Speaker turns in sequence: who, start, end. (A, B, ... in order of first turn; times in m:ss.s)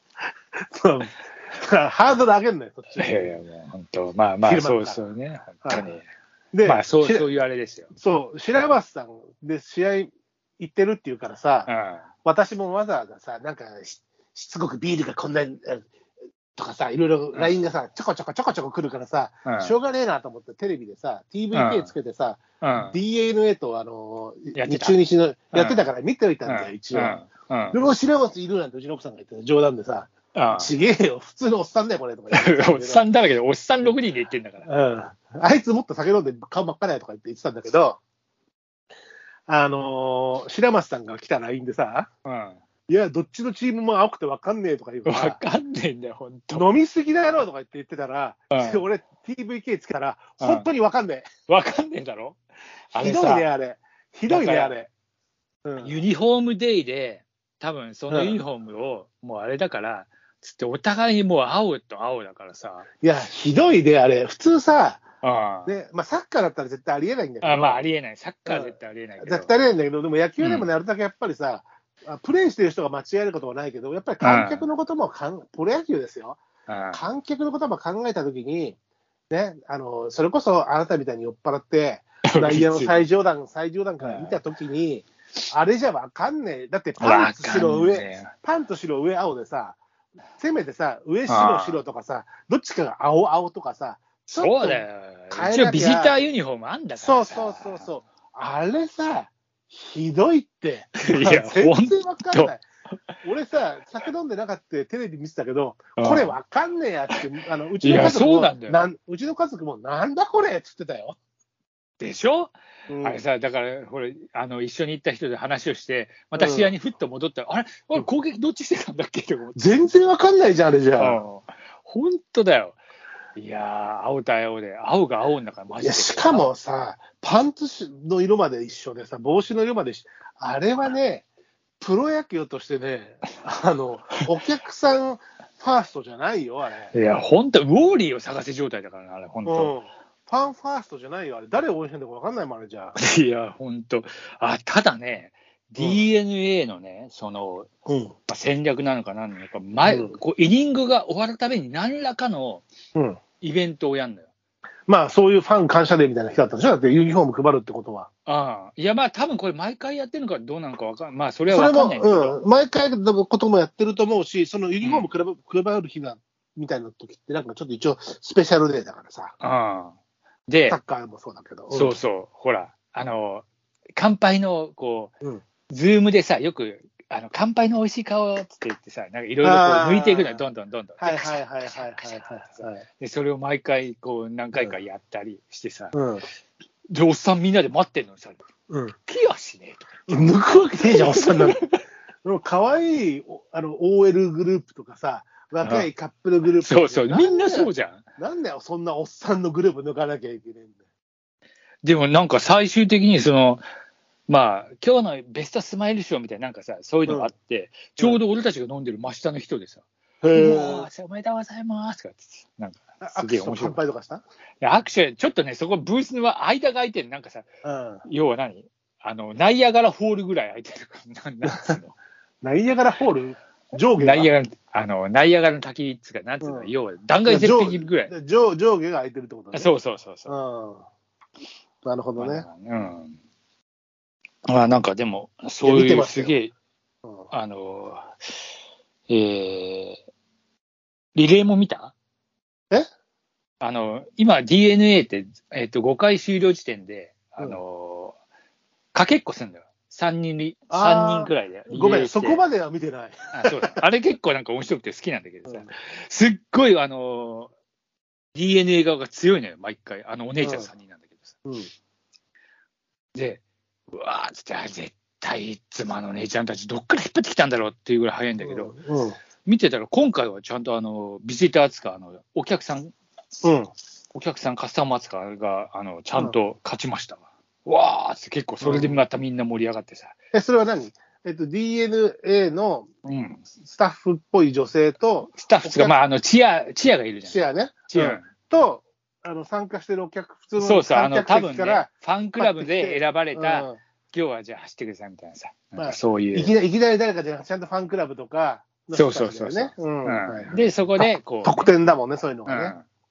0:00.6-0:03.4 A
0:03.0-0:06.1 B
0:04.4-0:05.0 A
0:05.6-0:05.9 A
0:06.5-0:07.2 A
0:06.6-0:07.9 B
0:08.0-0:11.7 A
0:11.7-0:12.0 B
0:12.2-0:15.9 A
0:16.6-0:33.0 A
0:19.4-0:19.7 B
0:21.5-0:21.9 B
0:22.6-0:23.0 B
0:24.5-0:25.0 B
0:25.5-0:25.8 B
0:26.4-0:27.8 B
0:30.3-0:30.7 B
0:32.3-0:34.7 B
0:34.6-0:38.0 A
0:39.5-0:42.1 A
0:42.2-0:42.6 B
0:42.9-0:45.4 A
0:45.0-0:46.7 B
0:46.5-0:51.3 A
0:48.5-0:48.8 B
0:50.4-0:50.6 B
0:51.5-0:52.4 B
0:52.9-0:53.5 B
0:53.0-0:54.9 A
0:54.3-0:54.8 B
0:55.6-0:56.0 A
0:55.8-1:02.9 B
0:58.1-0:58.4 A
1:03.0-1:05.0 A
1:05.2-1:05.7 B
1:05.6-1:07.8 A
1:07.4-1:09.5 B
1:08.4-1:16.4 A
1:10.4-1:10.7 B
1:14.2-1:14.7 B
1:16.7-1:17.0 B
1:16.9-1:18.8 A
1:19.3-1:29.8 A
1:22.3-1:23.0 B
1:24.0-1:24.4 B
1:27.0-1:28.3 B
1:30.4-1:36.2 A
1:31.3-1:31.8 B
1:34.2-1:37.9 B
1:37.0-1:42.6 A
1:41.0-1:42.5 B
1:43.2-1:51.2 A
1:46.0-1:46.4 B
1:47.8-1:48.8 B
1:52.0-1:59.8 B
1:52.9-1:53.2 A
1:56.4-1:56.7 A
1:59.6-2:01.2 A
2:01.0-2:02.8 B
2:03.4-2:06.5 B
2:05.8-2:11.2 A
2:11.8-2:16.9 A
2:16.9-2:19.7 B
2:19.4-2:23.0 A
2:23.0-2:27.7 B
2:25.8-2:26.0 A
2:27.9-2:28.1 A
2:28.3-2:32.6 B
2:29.8-2:30.2 A
2:33.4-2:34.3 B
2:34.9-2:38.1 A
2:38.2-2:42.4 B
2:41.5-2:49.3 A
2:44.8-2:45.1 B
2:49.4-2:49.9 B
2:50.5-2:50.8 B
2:50.7-2:51.9 A
2:51.7-2:55.1 B
2:55.7-3:06.0 B
2:59.4-3:00.4 A
3:01.0-3:02.8 A
3:05.9-3:06.2 A
3:06.9-3:08.4 B
3:08.7-3:08.9 A
3:09.0-3:11.8 B
3:10.1-3:11.6 A
3:12.2-3:20.8 A
3:15.6-3:15.9 B
3:16.6-3:18.0 B
3:21.8-3:23.6 B
3:24.3-3:33.8 B
3:27.0-3:27.3 A
3:30.2-3:30.9 A
3:33.0-3:34.2 A
3:34.6-3:37.5 B
3:37.6-3:38.0 A
3:38.0-3:42.0 B
3:41.4-3:41.8 A
3:42.4-3:44.3 A
3:43.9-3:48.1 B
3:46.4-3:46.7 A
3:47.2-3:49.7 A
3:49.5-3:50.3 B
3:50.2-3:50.8 A
3:51.8-3:52.4 A
3:52.2-3:53.2 B
3:54.5-3:56.5 B
3:55.6-3:56.3 A
3:57.3-3:58.2 B
3:59.1-4:00.0 B
4:01.1-4:01.9 B
4:03.6-4:08.2 B
4:08.9-4:12.4 B
4:10.7-4:13.8 A
4:13.3-4:17.5 B
4:18.3-4:21.3 B
4:20.4-4:20.7 A
4:21.4-4:21.7 A
4:23.1-4:23.4 B
4:23.9-4:28.7 B
4:28.4-4:29.2 A
4:29.4-4:32.9 B
4:33.4-4:33.7 A
4:34.1-4:40.1 B
4:38.6-4:39.0 A
4:40.3-4:42.9 A
4:43.0-4:43.4 B
4:43.7-4:46.0 A
4:45.4-4:47.4 B
4:47.2-4:53.8 A
4:47.9-4:48.3 B
4:50.6-4:56.5 B
4:55.8-5:02.7 A
4:58.9-5:01.7 B
5:02.4-5:02.8 B